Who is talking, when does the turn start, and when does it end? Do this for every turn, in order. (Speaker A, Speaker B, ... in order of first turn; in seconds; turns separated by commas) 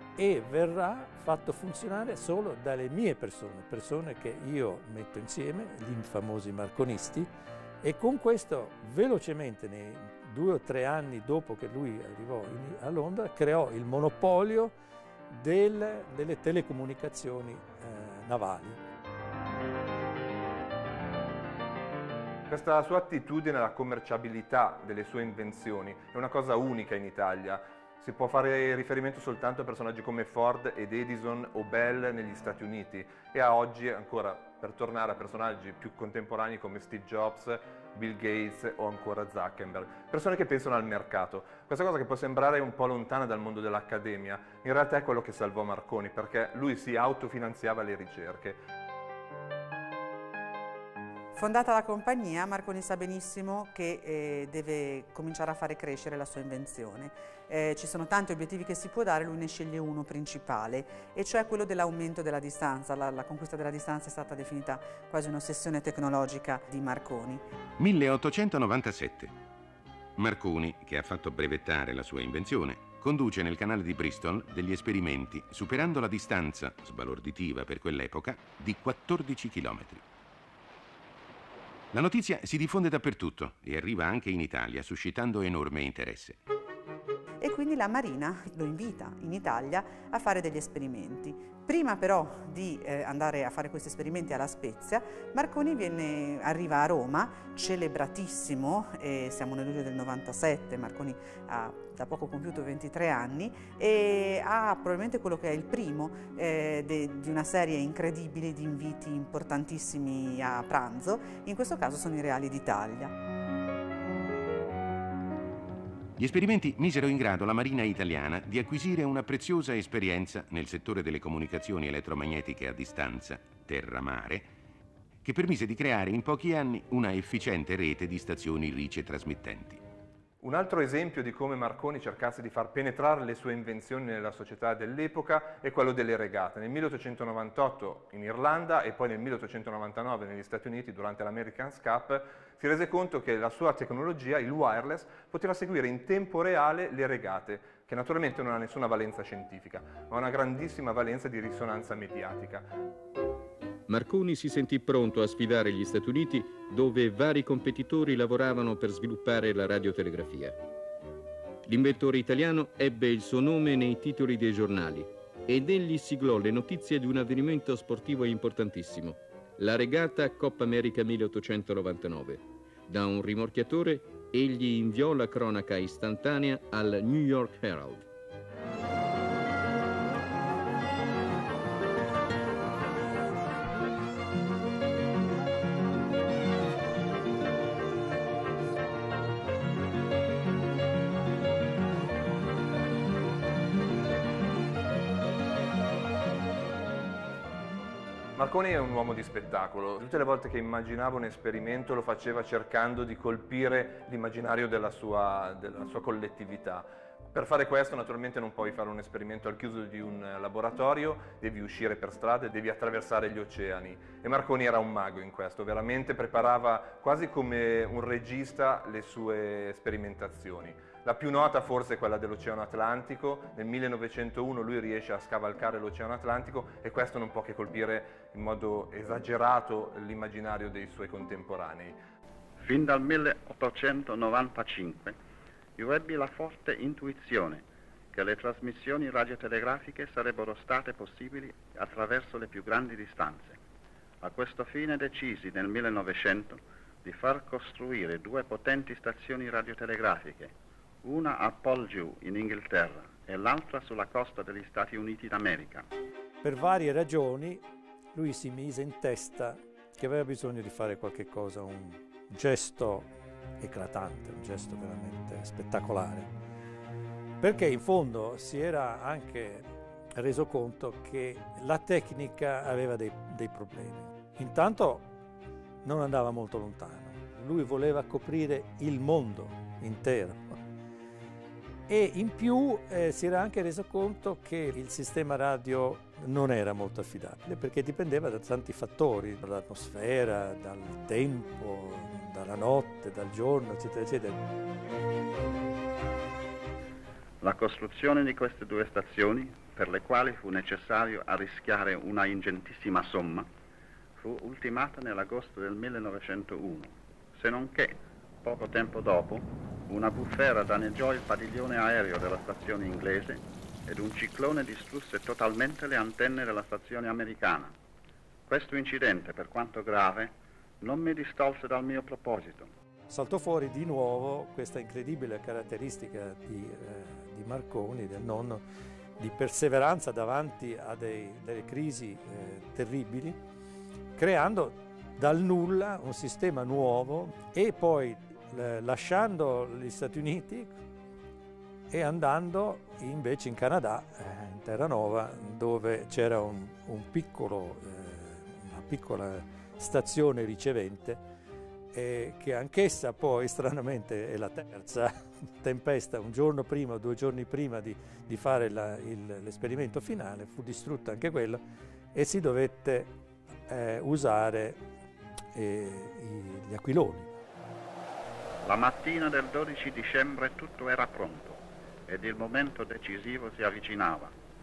Speaker A: 0.1-7.3, Speaker A: 7.8-14.7, Speaker A: 15.3-18.8, Speaker B: 22.5-48.6, Speaker C: 51.3-67.4, Speaker D: 67.8-69.3, Speaker D: 70.2-80.0, Speaker D: 81.9-86.4, Speaker C: 87.4-113.1, Speaker D: 116.2-124.5, Speaker D: 125.2-129.8, Speaker B: 130.4-152.7, Speaker E: 153.9-160.6, Speaker E: 161.7-178.0, Speaker B: 198.3-232.0, Speaker F: 232.6-235.2, Speaker F: 235.8-243.6, Speaker F: 244.2-255.9, Speaker A: 256.4-257.6, Speaker A: 258.1-263.1, Speaker A: 263.6-266.3, Speaker A: 267.4-275.1, Speaker A: 275.8-280.6, Speaker A: 281.9-294.4, Speaker F: 297.4-303.5, Speaker F: 304.2-317.7, Speaker F: 318.5-322.7, Speaker A: 323.1-328.6, Speaker A: 329.2-333.4, Speaker A: 334.2-340.7, Speaker A: 341.9-351.2, Speaker A: 351.9-361.6, Speaker A: 362.1-363.1, Speaker A: 363.7-364.8, Speaker A: 365.5-367.3, Speaker F: 368.6-374.3